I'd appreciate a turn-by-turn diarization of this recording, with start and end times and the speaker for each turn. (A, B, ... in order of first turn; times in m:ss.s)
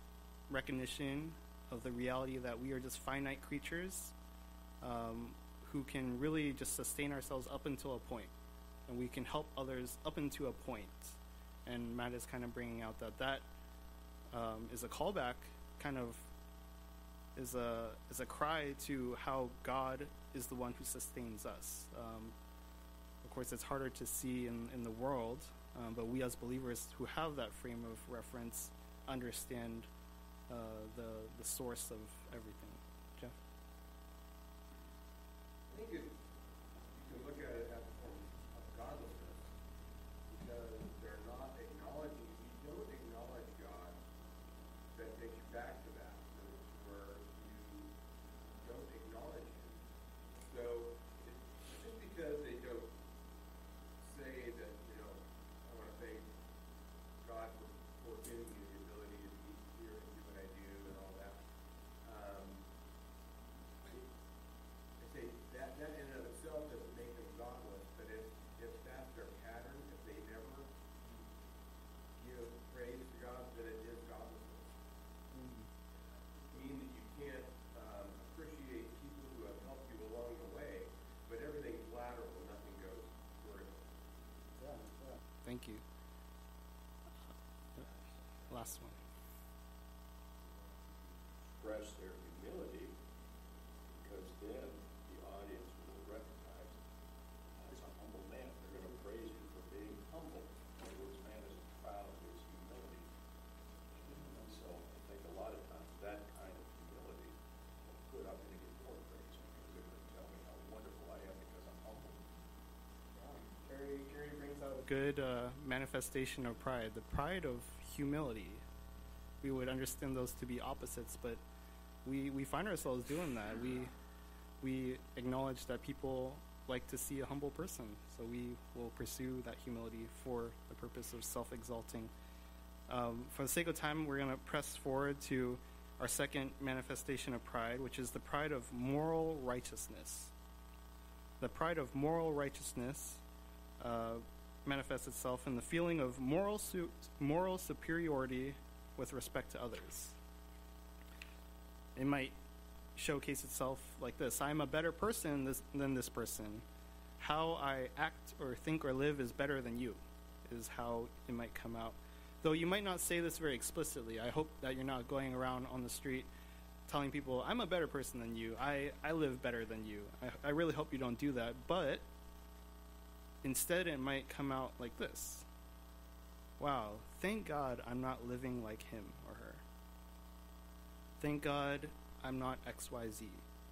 0:00.5-0:04.1 A
0:04.8-0:08.3 A
0:08.9-0:13.4 A
0:14.3-0:16.3 A
0:17.4-0:22.3 A
0:23.2-0:29.9 A
0:30.5-0:33.3 A
0:35.7-0:36.1 B
0:36.9-0:39.5 B
0:40.3-0:44.0 B
0:44.9-0:47.9 B
0:48.6-0:49.8 B
0:50.4-0:52.9 B
0:54.0-0:56.3 B
0:57.2-1:01.4 B
1:02.0-1:02.6 B
1:05.0-1:10.7 B
1:12.2-1:14.7 B
1:15.3-1:15.6 A
1:16.5-1:23.7 B
1:24.6-1:25.8 A
1:27.8-1:28.9 B
1:28.5-1:28.9 A
1:31.6-1:32.9 C
1:34.0-1:36.7 C
1:37.6-1:43.0 C
1:44.3-1:47.3 C
1:47.9-1:52.3 C
1:53.1-1:58.6 A
1:59.4-2:01.4 A
2:02.0-2:03.9 A
2:04.6-2:12.1 A
2:12.9-2:20.3 A
2:21.4-2:23.2 A
2:23.8-2:30.2 A
2:32.0-2:32.4 A
2:33.0-2:36.6 A
2:37.2-2:46.3 A
2:46.9-2:52.0 A
2:53.4-2:55.4 A
2:56.6-2:59.6 A
3:01.2-3:03.4 A